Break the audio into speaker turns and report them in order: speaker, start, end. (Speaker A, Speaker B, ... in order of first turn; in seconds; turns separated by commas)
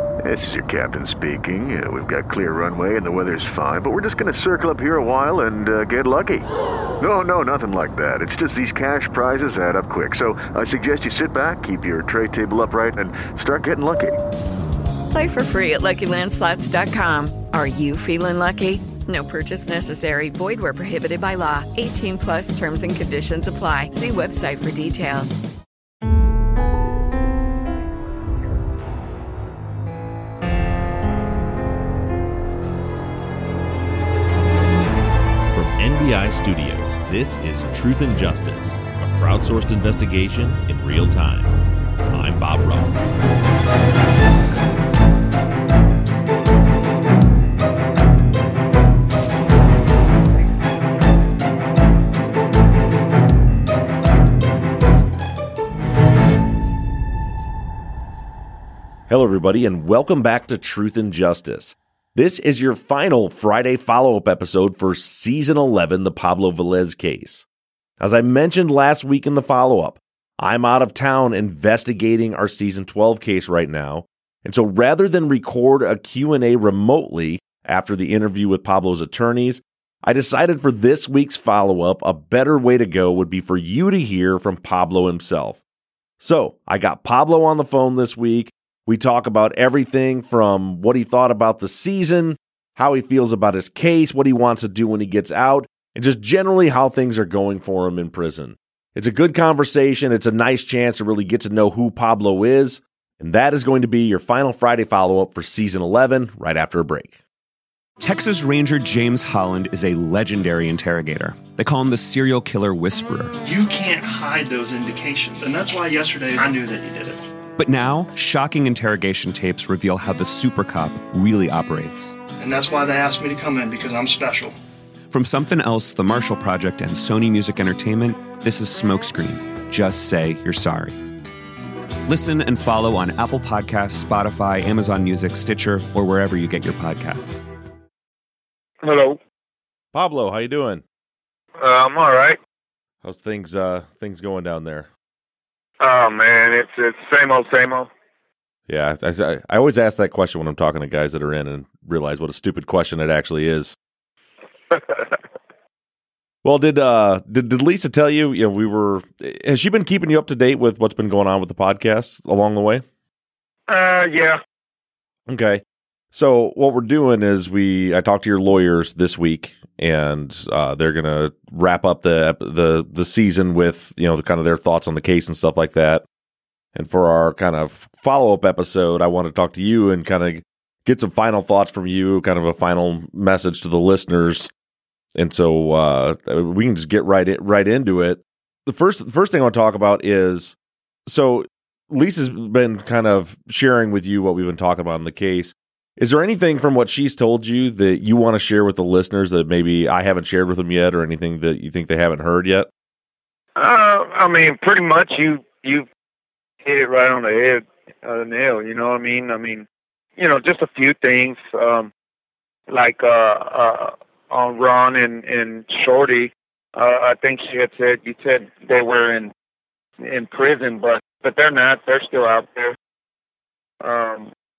Speaker A: 0.2-6.5, Speaker A: 7.0-14.2, Speaker B: 15.1-25.4, Speaker C: 35.5-41.5, Speaker C: 42.1-43.0, Speaker C: 59.1-67.5, Speaker C: 68.0-85.6, Speaker C: 86.2-107.2, Speaker D: 108.0-113.3, Speaker E: 113.4-117.2, Speaker D: 117.6-122.2, Speaker E: 122.4-124.5, Speaker D: 125.1-131.0, Speaker D: 132.1-137.4, Speaker F: 138.8-139.2, Speaker C: 139.9-140.8, Speaker F: 141.6-142.4, Speaker C: 143.0-144.9, Speaker F: 145.8-147.9, Speaker C: 148.7-153.8, Speaker F: 154.7-155.2, Speaker C: 156.4-162.8, Speaker F: 163.7-164.4, Speaker C: 165.3-176.0, Speaker C: 176.7-184.5, Speaker C: 185.1-190.6, Speaker C: 191.1-202.7, Speaker F: 203.6-205.9, Speaker F: 206.6-209.7, Speaker F: 210.2-211.9, Speaker F: 212.7-219.3, Speaker F: 220.0-222.8, Speaker F: 223.8-224.3